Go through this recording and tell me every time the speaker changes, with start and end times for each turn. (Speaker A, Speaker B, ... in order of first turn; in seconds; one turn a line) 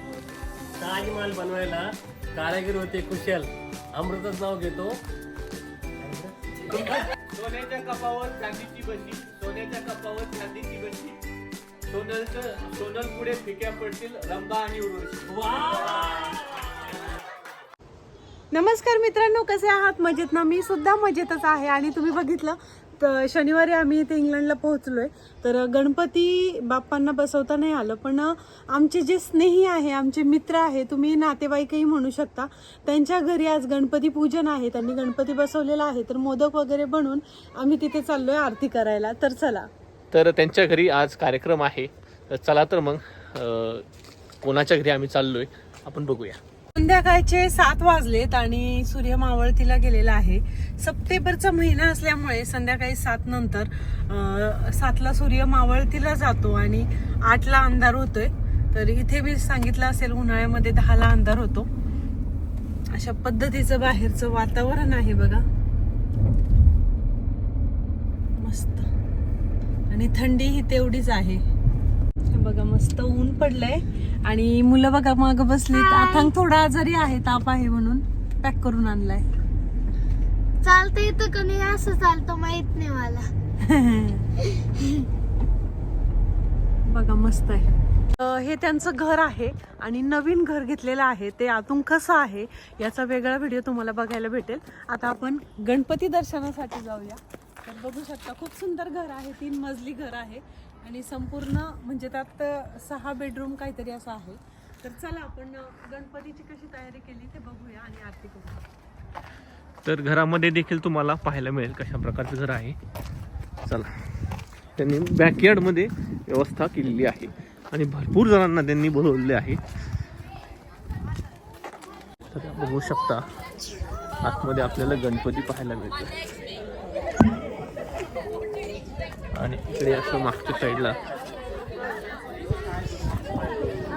Speaker A: 0.8-5.0
Speaker A: 6.0-6.3
Speaker B: 7.3-11.2
Speaker B: 11.9-15.8
Speaker A: 15.3-16.7
Speaker C: 18.5-39.7
Speaker B: 40.1-43.8
Speaker B: 44.4-46.4
Speaker C: 46.8-61.7
Speaker C: 62.9-65.4
Speaker C: 68.4-68.8
Speaker C: 69.9-71.4
Speaker C: 72.3-79.3
Speaker D: 75.7-76.3
Speaker D: 80.6-83.3
Speaker C: 83.6-84.2
Speaker C: 86.9-108.6
Speaker B: 109.8-112.8
Speaker B: 114.8-119.6
Speaker B: 122.3-123.2
Speaker B: 124.2-126.1
Speaker B: 129.3-131.0